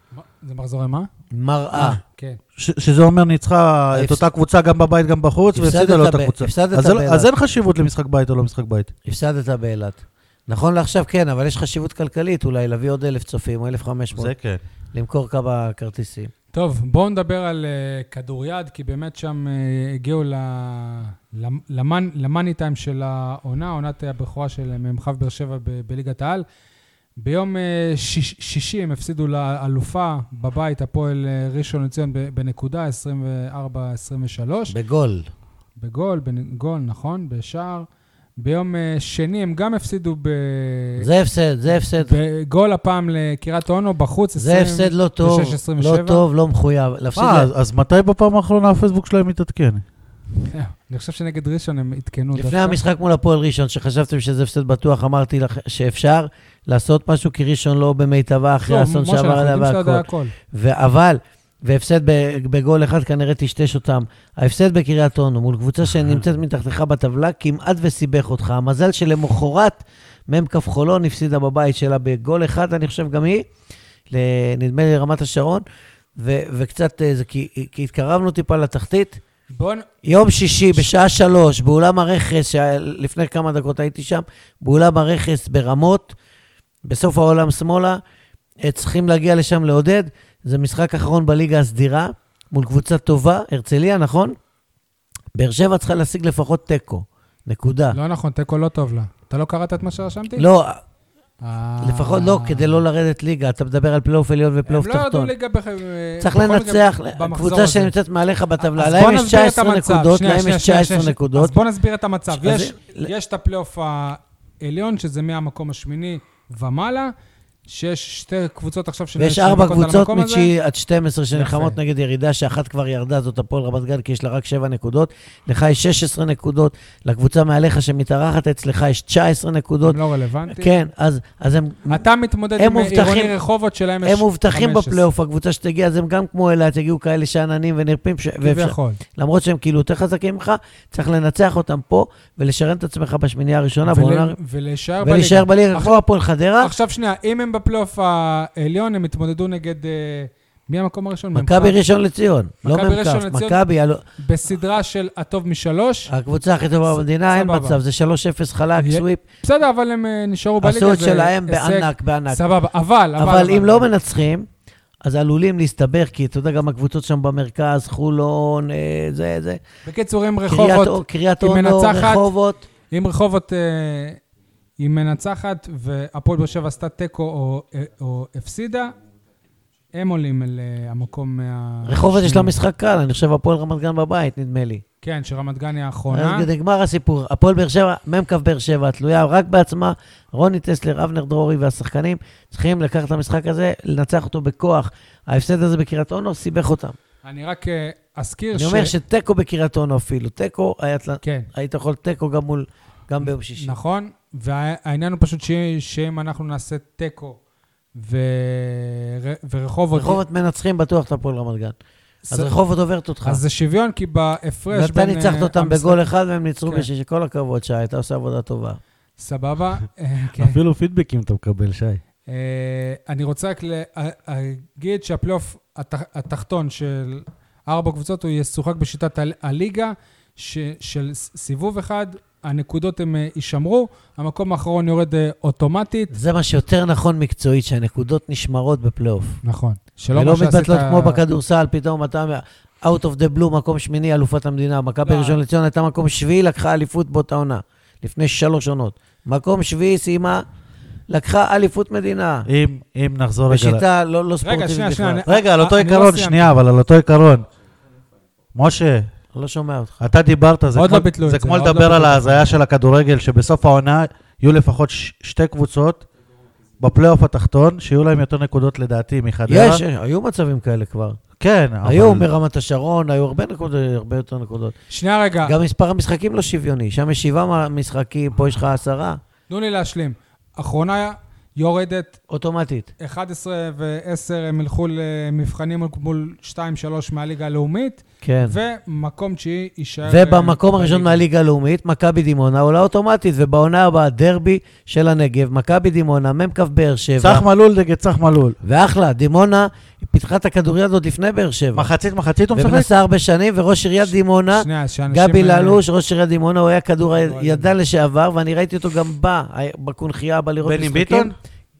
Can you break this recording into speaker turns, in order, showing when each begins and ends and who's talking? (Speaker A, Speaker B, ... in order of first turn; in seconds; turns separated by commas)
Speaker A: 0.1-1.1, Speaker B: 1.3-2.0, Speaker A: 1.8-2.4, Speaker C: 2.6-8.9, Speaker B: 3.9-4.2, Speaker B: 5.5-7.3, Speaker B: 9.1-14.3, Speaker C: 14.1-14.6, Speaker B: 14.9-16.3, Speaker A: 16.5-26.4, Speaker A: 27.2-34.8, Speaker B: 34.7-35.3, Speaker A: 35.8-37.9, Speaker A: 38.4-41.1, Speaker B: 41.0-42.1, Speaker A: 42.0-46.2, Speaker B: 44.4-47.5, Speaker C: 47.2-49.8, Speaker A: 50.5-52.8, Speaker B: 52.4-73.5, Speaker A: 58.6-60.3, Speaker B: 74.1-75.6, Speaker B: 76.2-79.2, Speaker A: 79.5-79.9, Speaker B: 80.0-86.2, Speaker B: 86.8-88.0, Speaker B: 88.6-94.4, Speaker B: 95.3-98.0, Speaker A: 97.9-100.5, Speaker B: 100.4-100.8, Speaker A: 101.4-102.8, Speaker B: 101.8-105.3, Speaker A: 104.7-107.9, Speaker B: 106.2-111.6, Speaker A: 108.6-117.1, Speaker B: 112.3-113.1, Speaker A: 117.7-120.5, Speaker B: 119.2-130.0, Speaker A: 121.3-121.8, Speaker A: 129.8-130.8, Speaker B: 130.5-132.0, Speaker A: 131.9-135.0, Speaker B: 132.6-133.3, Speaker B: 134.0-144.4, Speaker A: 138.4-139.0, Speaker A: 143.8-146.0, Speaker B: 145.0-146.7, Speaker A: 146.6-151.8, Speaker B: 151.3-154.0, Speaker A: 152.7-153.6, Speaker A: 154.2-156.1, Speaker B: 156.1-159.2, Speaker A: 157.2-157.8, Speaker A: 158.8-163.9, Speaker B: 160.6-162.4, Speaker B: 163.2-164.5, Speaker B: 165.0-169.6, Speaker A: 169.8-172.3, Speaker B: 170.4-172.7, Speaker A: 172.9-174.2, Speaker A: 174.8-178.9, Speaker A: 179.9-182.6, Speaker B: 181.9-184.8, Speaker A: 185.0-186.5, Speaker B: 186.1-197.0, Speaker A: 197.2-198.9, Speaker B: 198.5-203.8, Speaker A: 201.2-201.5, Speaker A: 203.6-207.4, Speaker A: 208.0-210.2, Speaker B: 209.9-211.8, Speaker A: 212.3-212.5, Speaker B: 212.3-213.4, Speaker A: 213.2-216.0, Speaker B: 214.7-218.8, Speaker A: 219.2-220.6, Speaker C: 220.4-222.0, Speaker A: 222.3-236.1, Speaker B: 236.1-239.4, Speaker A: 239.4-241.2, Speaker B: 240.1-250.4, Speaker A: 245.1-245.4, Speaker B: 251.1-252.5, Speaker C: 252.5-253.8, Speaker B: 253.5-255.2, Speaker A: 254.4-256.5, Speaker C: 255.3-257.5, Speaker C: 258.6-259.1, Speaker B: 259.3-260.1, Speaker C: 260.0-266.1, Speaker A: 260.7-262.6, Speaker C: 266.8-269.8, Speaker B: 269.5-271.2, Speaker C: 271.4-272.3, Speaker B: 271.8-274.8, Speaker A: 274.9-275.6, Speaker B: 275.4-279.2, Speaker A: 279.5-282.2, Speaker B: 282.3-282.9, Speaker A: 283.0-291.2, Speaker B: 288.2-288.6, Speaker B: 290.0-297.5, Speaker C: 297.2-298.6, Speaker B: 298.6-301.9, Speaker C: 301.8-302.9, Speaker B: 302.5-311.3, Speaker A: 304.5-305.8, Speaker A: 307.2-307.7, Speaker C: 310.6-311.4